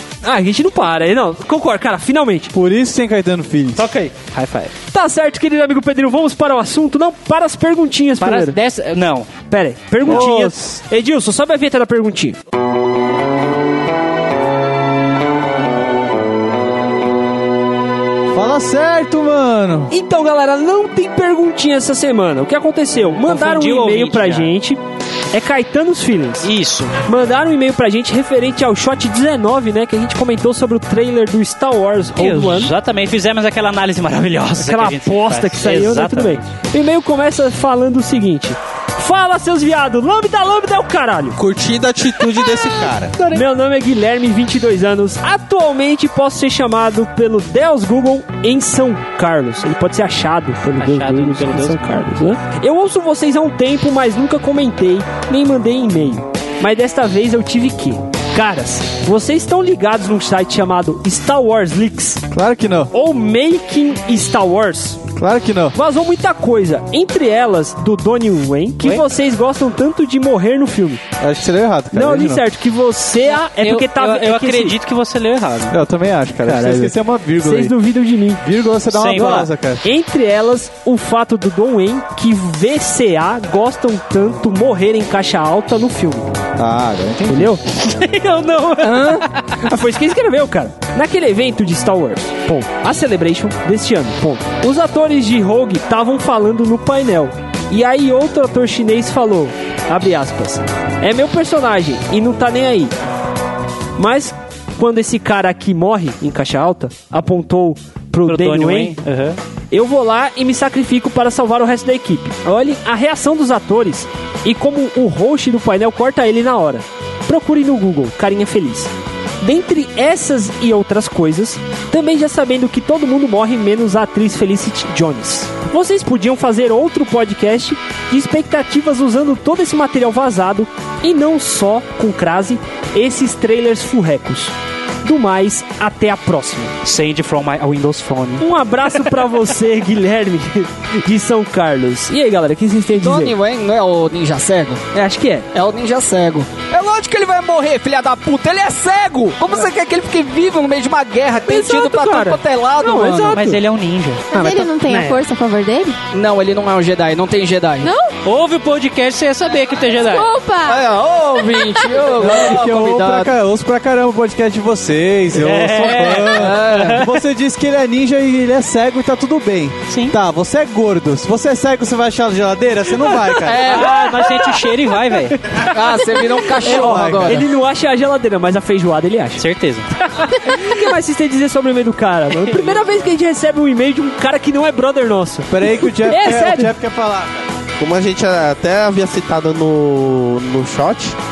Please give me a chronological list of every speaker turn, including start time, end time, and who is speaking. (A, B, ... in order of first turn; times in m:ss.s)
0:00.2-0:02.5 A
0:02.5-0:03.8 B
0:03.8-0:04.1 A
0:04.1-0:04.7 C
0:04.9-0:08.6 A
0:08.2-0:09.3 C
0:09.5-0:12.4 A
0:10.0-0:10.4 C
0:10.0-0:10.6 B
0:18.3-0:19.9 B
0:19.9-0:24.8 A
0:23.2-0:24.5 C
0:25.3-0:26.5 A
0:26.4-0:26.9 C
0:27.0-0:32.7 A
0:32.2-0:36.4 C
0:34.6-0:41.4 A
0:41.4-0:43.1 D
0:43.2-1:02.2 A
0:50.8-0:52.0 C
1:02.3-1:02.9 B
1:02.9-1:05.0 A
1:05.2-1:05.8 B
1:05.7-1:11.0 A
1:11.2-1:12.4 B
1:11.9-1:14.7 A
1:13.3-1:15.8 C
1:15.7-1:17.8 B
1:16.4-1:18.4 A
1:18.4-1:19.8 B
1:18.9-1:19.5 C
1:19.1-1:26.3 A
1:26.6-1:27.6 B
1:27.3-1:27.6 A
1:27.8-1:29.6 C
1:28.8-1:42.9 A
1:28.8-1:29.2 E
1:44.0-1:48.9 A
1:48.3-1:49.4 C
1:49.7-1:58.9 A
1:59.4-2:16.7 A
2:16.8-2:18.4 C
2:18.4-2:23.3 A
2:22.9-2:24.8 E
2:24.9-2:25.5 A
2:25.5-2:33.6 E
2:31.5-2:32.4 A
2:32.8-2:34.7 C
2:32.9-2:33.6 A
2:34.3-2:36.0 F
2:34.4-2:35.2 A
2:36.1-2:37.9 E
2:37.8-2:38.1 F
2:38.2-2:40.3 C
2:40.0-2:40.8 F
2:40.6-2:43.3 E
2:41.4-2:42.1 F
2:42.2-2:53.7 B
2:45.3-2:47.2 C
2:46.3-2:47.0 E
2:49.9-2:50.2 C
2:53.4-2:54.0 E
2:53.7-2:55.4 C
2:53.7-2:54.7 A
2:55.6-2:57.4 E
2:56.6-2:59.4 A
2:56.7-2:57.4 B
2:59.4-2:59.9 C
3:00.1-3:06.7 A
3:05.5-3:07.4 B
3:07.8-3:11.2 D